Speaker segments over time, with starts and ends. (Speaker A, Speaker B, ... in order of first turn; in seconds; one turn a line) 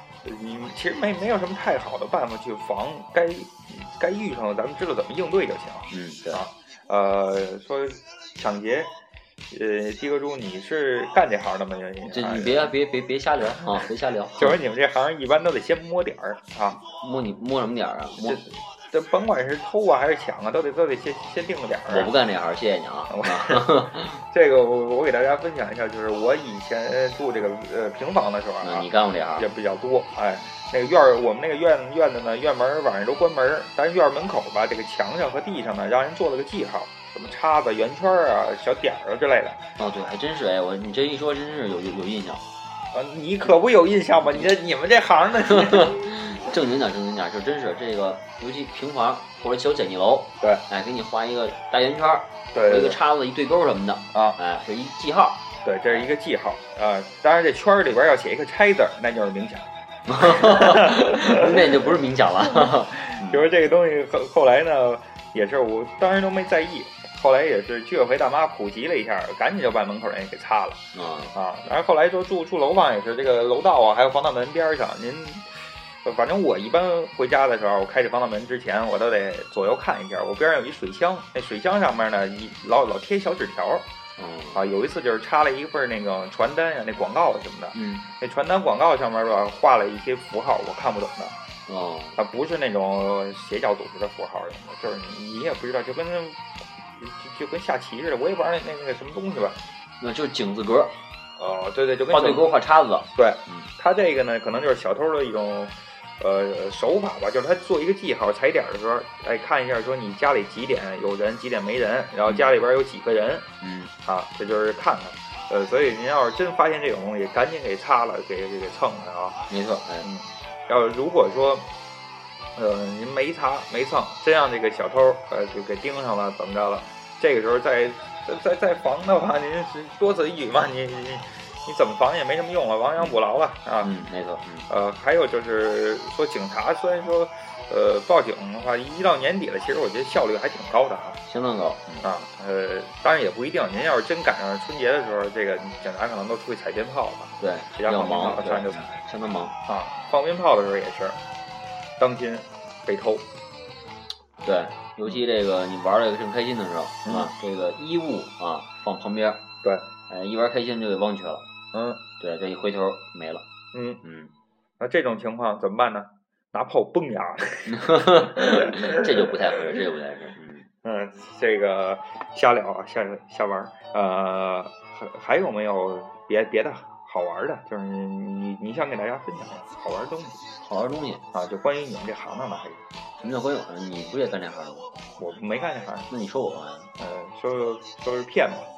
Speaker A: 0.2-8.9
Speaker B: 5.9-6.4
Speaker A: 9.5-12.7
Speaker B: 12.1-14.6
Speaker A: 14.3-16.8
Speaker B: 16.8-18.4
Speaker A: 18.2-22.1
Speaker B: 21.9-24.2
Speaker A: 23.1-39.6
Speaker B: 28.6-29.5
Speaker B: 39.8-42.4
Speaker A: 42.9-46.3
Speaker B: 45.5-56.0
Speaker A: 52.5-53.0
Speaker A: 54.1-54.4
Speaker A: 55.6-59.7
Speaker B: 60.1-63.5
Speaker A: 60.2-70.8
Speaker B: 70.9-71.3
Speaker A: 71.3-83.9
Speaker B: 84.2-84.6
Speaker A: 84.5-91.3
Speaker B: 87.7-88.1
Speaker B: 91.7-92.2
Speaker A: 92.2-99.6
Speaker B: 100.0-101.0
Speaker A: 101.4-102.5
Speaker B: 102.1-103.7
Speaker A: 103.1-113.5
Speaker B: 113.6-113.9
Speaker A: 114.0-119.5
Speaker B: 119.5-120.1
Speaker A: 120.0-121.7
Speaker A: 122.5-133.9
Speaker B: 133.8-134.7
Speaker A: 134.7-141.2
Speaker B: 141.3-142.1
Speaker A: 142.0-148.9
Speaker B: 147.4-149.5
Speaker A: 149.7-151.2
Speaker A: 152.0-153.3
Speaker B: 154.4-159.4
Speaker A: 157.1-157.3
Speaker B: 160.1-161.4
Speaker A: 161.7-162.0
Speaker B: 162.2-163.4
Speaker A: 163.7-164.0
Speaker B: 164.0-164.3
Speaker A: 164.8-169.7
Speaker B: 167.7-170.7
Speaker A: 170.8-180.4
Speaker B: 180.6-181.2
Speaker A: 181.3-182.8
Speaker B: 183.2-184.9
Speaker A: 185.2-186.1
Speaker B: 186.1-186.9
Speaker A: 187.0-188.7